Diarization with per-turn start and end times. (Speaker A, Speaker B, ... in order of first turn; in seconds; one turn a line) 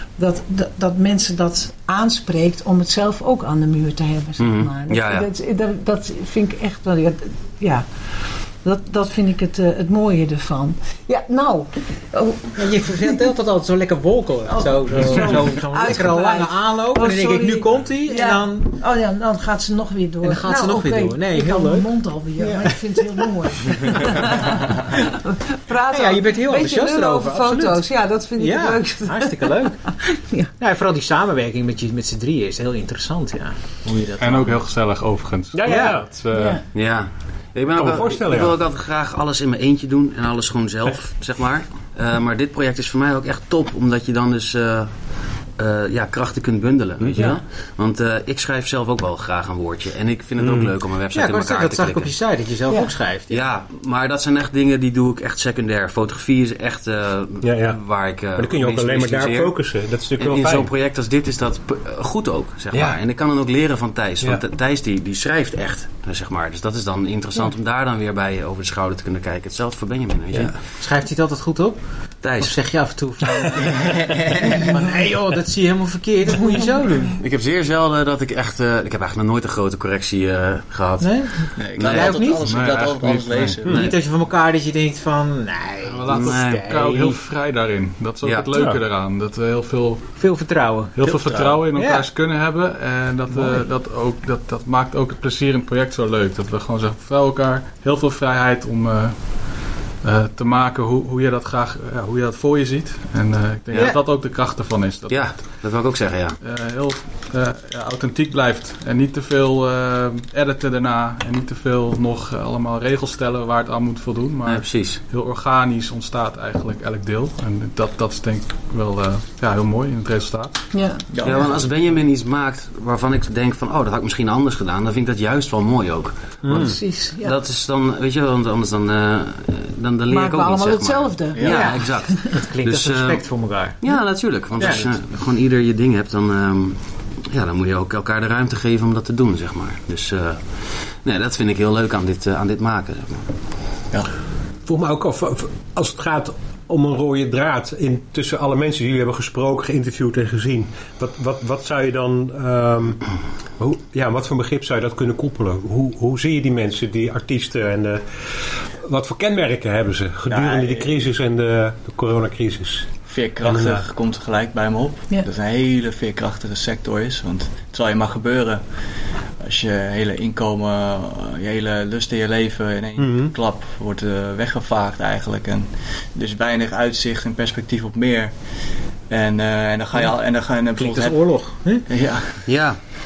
Speaker A: 0.2-13.2
Speaker B: 4.4-5.3
Speaker C: 12.6-18.8
Speaker A: 14.5-30.5
Speaker C: 20.2-23.0
Speaker C: 25.9-30.0
Speaker C: 30.6-34.7
Speaker D: 34.2-36.6
Speaker E: 35.5-36.1
Speaker C: 35.6-36.1
Speaker A: 36.3-36.6
Speaker B: 36.7-52.1
Speaker E: 37.8-38.6
Speaker E: 47.0-47.3
Speaker E: 50.4-50.7
Speaker C: 51.1-53.5
Speaker B: 53.3-70.6
Speaker E: 57.4-57.8
Speaker E: 58.3-60.7
Speaker C: 62.7-63.0
Speaker C: 70.3-77.2
Speaker B: 72.2-72.9
Speaker F: 74.6-75.1
Speaker B: 77.2-82.3
Speaker C: 81.0-82.5
Speaker F: 81.5-83.9
Speaker D: 82.4-83.6
Speaker C: 83.6-87.2
Speaker B: 83.7-84.0
Speaker D: 85.9-90.2
Speaker B: 86.1-86.7
Speaker B: 88.2-88.5
Speaker E: 88.5-88.8
Speaker C: 90.2-91.0
Speaker D: 90.9-105.6
Speaker F: 91.0-91.6
Speaker C: 91.7-92.1
Speaker B: 103.7-104.0
Speaker C: 103.7-104.0
Speaker B: 105.1-106.4
Speaker D: 106.4-120.8
Speaker B: 114.4-115.0
Speaker A: 120.7-121.5
Speaker F: 121.1-121.5
Speaker B: 121.2-143.3
Speaker E: 126.4-126.8
Speaker A: 126.5-127.3
Speaker A: 130.1-132.3
Speaker F: 131.3-131.8
Speaker C: 131.5-133.9
Speaker C: 134.6-134.9
Speaker E: 144.7-153.1
Speaker E: 153.6-163.8
Speaker F: 160.3-160.9
Speaker F: 163.1-168.6
Speaker F: 169.4-178.4
Speaker E: 173.0-173.3
Speaker F: 179.1-182.5
Speaker C: 180.8-181.9
Speaker B: 182.4-182.8